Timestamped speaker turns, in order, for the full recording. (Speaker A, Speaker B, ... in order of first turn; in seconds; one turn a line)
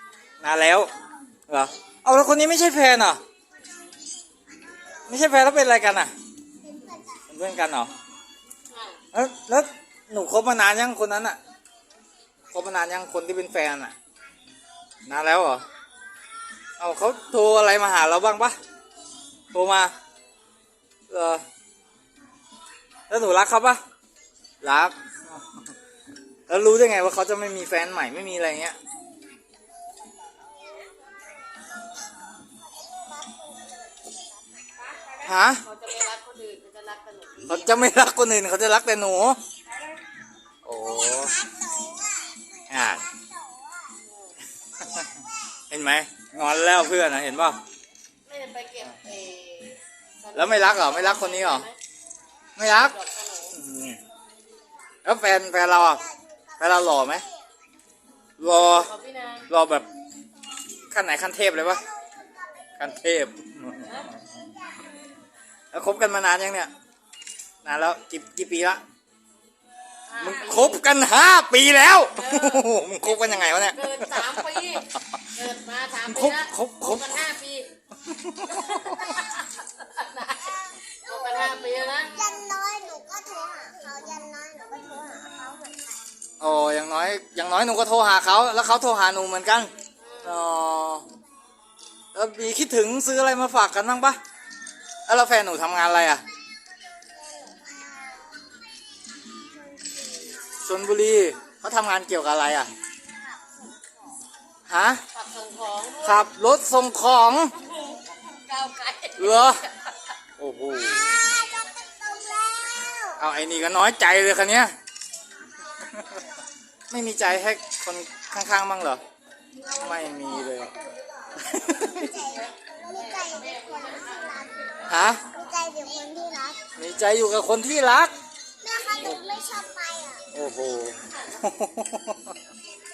Speaker A: 0.4-0.9
Speaker A: 1.5-3.2
Speaker A: 5.1-6.1
Speaker A: 7.3-7.9
Speaker B: 8.7-9.0
Speaker A: 9.1-11.4
Speaker A: 12.5-13.9
Speaker A: 15.1-15.7
Speaker A: 16.8-18.6
Speaker A: 19.5-19.9
Speaker A: 21.1-21.4
Speaker A: 23.1-23.8
Speaker A: 24.6-25.0
Speaker A: 26.5-28.8
Speaker C: 32.8-34.2
Speaker A: 35.2-35.6
Speaker B: 35.6-37.8
Speaker A: 37.5-39.4
Speaker A: 40.6-41.4
Speaker C: 41.2-42.5
Speaker A: 42.7-43.0
Speaker C: 43.2-43.8
Speaker B: 44.0-44.4
Speaker A: 45.7-47.6
Speaker B: 48.3-51.8
Speaker A: 50.3-51.7
Speaker A: 52.6-53.0
Speaker B: 52.6-53.6
Speaker A: 53.5-54.0
Speaker A: 55.0-56.1
Speaker A: 56.6-57.2
Speaker A: 58.4-58.9
Speaker B: 58.5-59.5
Speaker A: 59.5-59.9
Speaker A: 60.9-61.8
Speaker A: 62.8-64.1
Speaker B: 63.9-64.1
Speaker A: 65.7-66.7
Speaker A: 67.6-68.8
Speaker B: 70.1-70.8
Speaker A: 70.2-74.8
Speaker B: 72.2-77.7
Speaker A: 76.1-77.2
Speaker A: 78.1-79.2
Speaker B: 78.5-82.2
Speaker C: 81.1-86.0
Speaker A: 86.4-89.7
Speaker B: 90.0-90.5
Speaker A: 90.2-91.1
Speaker A: 92.1-94.2
Speaker A: 95.1-96.2
Speaker C: 97.5-98.2
Speaker A: 100.6-102.7
Speaker A: 104.7-105.0
Speaker B: 105.1-106.2
Speaker A: 106.0-107.5
Speaker B: 107.8-109.9
Speaker A: 109.2-109.6
Speaker A: 110.4-111.2
Speaker C: 111.1-113.2
Speaker A: 113.2-114.8
Speaker A: 116.9-119.0
Speaker A: 119.7-120.7
Speaker A: 121.4-122.2
Speaker C: 121.7-124.7
Speaker B: 122.3-125.0
Speaker A: 124.9-125.2
Speaker C: 125.2-126.7
Speaker A: 126.8-128.1
Speaker C: 128.6-130.3
Speaker B: 128.7-129.2
Speaker A: 130.3-132.3
Speaker B: 131.1-131.4